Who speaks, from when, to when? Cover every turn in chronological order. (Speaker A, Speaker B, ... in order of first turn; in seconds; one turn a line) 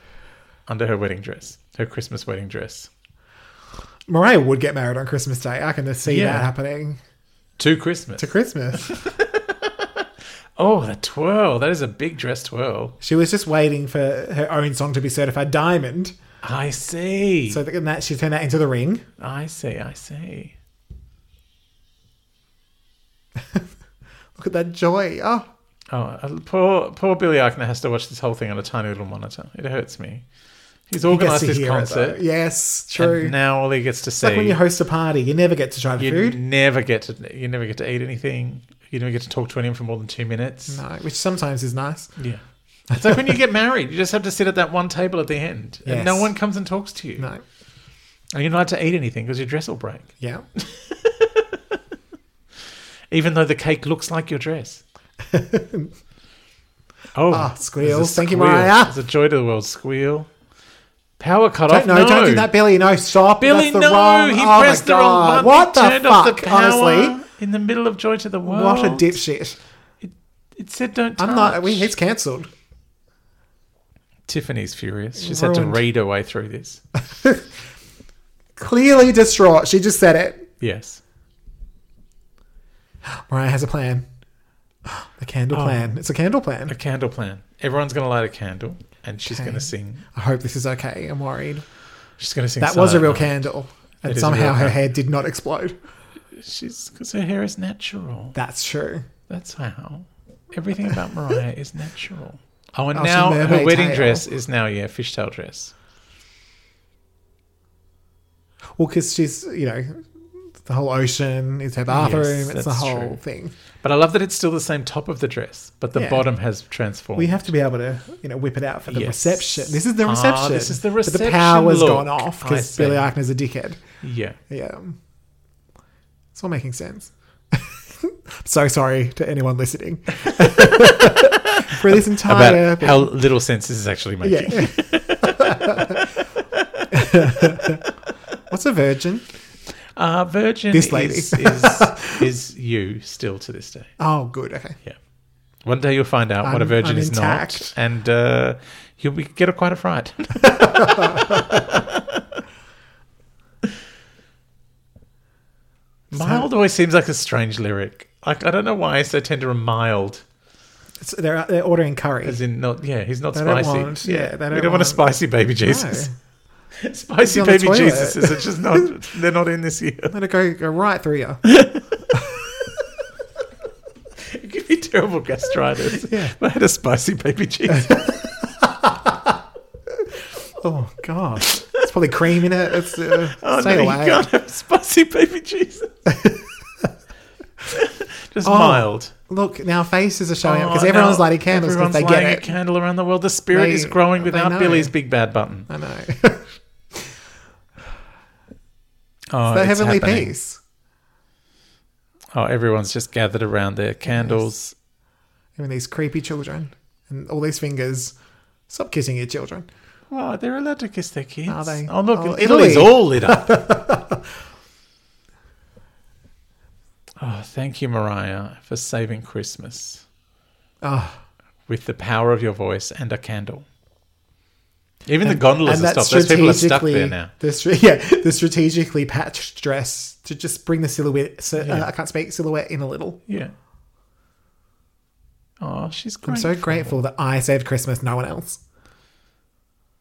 Speaker A: 0.7-2.9
Speaker B: 4.1-7.0
Speaker A: 6.0-6.5
Speaker A: 7.6-13.0
Speaker B: 8.2-8.9
Speaker B: 13.0-16.2
Speaker A: 16.4-17.6
Speaker B: 17.5-19.1
Speaker A: 19.2-20.6
Speaker B: 23.4-23.7
Speaker B: 24.4-25.5
Speaker A: 25.9-30.2
Speaker A: 30.9-32.2
Speaker B: 31.1-33.4
Speaker A: 33.0-34.6
Speaker B: 34.2-36.4
Speaker A: 36.0-40.8
Speaker B: 40.7-42.1
Speaker A: 42.2-47.3
Speaker B: 42.9-43.4
Speaker B: 45.9-46.3
Speaker B: 47.2-47.4
Speaker A: 48.3-51.8
Speaker B: 50.2-50.5
Speaker A: 53.1-54.8
Speaker B: 55.3-55.9
Speaker A: 57.1-60.3
Speaker B: 57.3-59.0
Speaker A: 61.2-62.5
Speaker B: 61.7-67.2
Speaker A: 63.4-69.2
Speaker B: 68.5-69.6
Speaker A: 70.0-71.9
Speaker B: 71.2-72.5
Speaker A: 74.3-76.8
Speaker B: 75.2-75.8
Speaker B: 77.1-77.5
Speaker B: 78.6-80.5
Speaker A: 80.6-81.0
Speaker B: 83.1-84.0
Speaker B: 84.9-86.8
Speaker A: 85.5-86.0
Speaker A: 86.7-90.0
Speaker B: 89.2-91.7
Speaker A: 92.2-93.3
Speaker B: 92.6-95.8
Speaker A: 94.0-94.8
Speaker A: 96.3-98.4
Speaker B: 98.3-99.1
Speaker A: 99.3-105.7
Speaker B: 102.9-104.3
Speaker B: 108.8-113.5
Speaker A: 111.9-113.2
Speaker A: 113.8-117.5
Speaker B: 116.0-116.3
Speaker B: 117.2-123.8
Speaker A: 118.9-123.1
Speaker A: 124.0-124.4
Speaker B: 124.5-125.0
Speaker B: 126.3-133.1
Speaker A: 131.7-137.6
Speaker B: 134.2-136.1
Speaker B: 136.9-137.8
Speaker B: 138.5-139.3
Speaker A: 139.9-143.9
Speaker B: 140.7-142.3
Speaker B: 144.0-144.8
Speaker A: 145.6-152.2
Speaker B: 146.4-147.7
Speaker B: 150.4-151.8
Speaker A: 156.1-160.2
Speaker B: 156.2-156.5
Speaker B: 161.0-162.4
Speaker A: 162.2-166.1
Speaker B: 163.3-165.1
Speaker B: 165.6-166.1
Speaker A: 166.8-170.1
Speaker B: 167.2-168.9
Speaker B: 170.1-171.5
Speaker A: 171.4-171.9
Speaker B: 172.1-172.5
Speaker A: 174.2-178.2
Speaker B: 176.0-176.3
Speaker B: 177.7-179.3
Speaker B: 180.6-184.3
Speaker A: 182.8-185.9
Speaker B: 186.1-186.9
Speaker A: 187.7-189.1
Speaker B: 188.4-192.5
Speaker A: 190.4-195.7
Speaker B: 193.5-194.9
Speaker B: 195.7-197.1
Speaker A: 199.3-200.3
Speaker B: 199.5-200.6
Speaker A: 202.3-204.8
Speaker B: 204.1-204.4
Speaker B: 205.6-208.2
Speaker B: 208.7-209.7
Speaker A: 210.1-213.6
Speaker B: 211.5-214.2
Speaker A: 217.2-220.0
Speaker B: 220.8-221.2
Speaker A: 221.7-223.7
Speaker A: 225.1-227.3
Speaker B: 225.2-233.2
Speaker A: 231.6-231.9
Speaker A: 233.3-233.5
Speaker A: 235.6-237.0
Speaker B: 236.2-238.6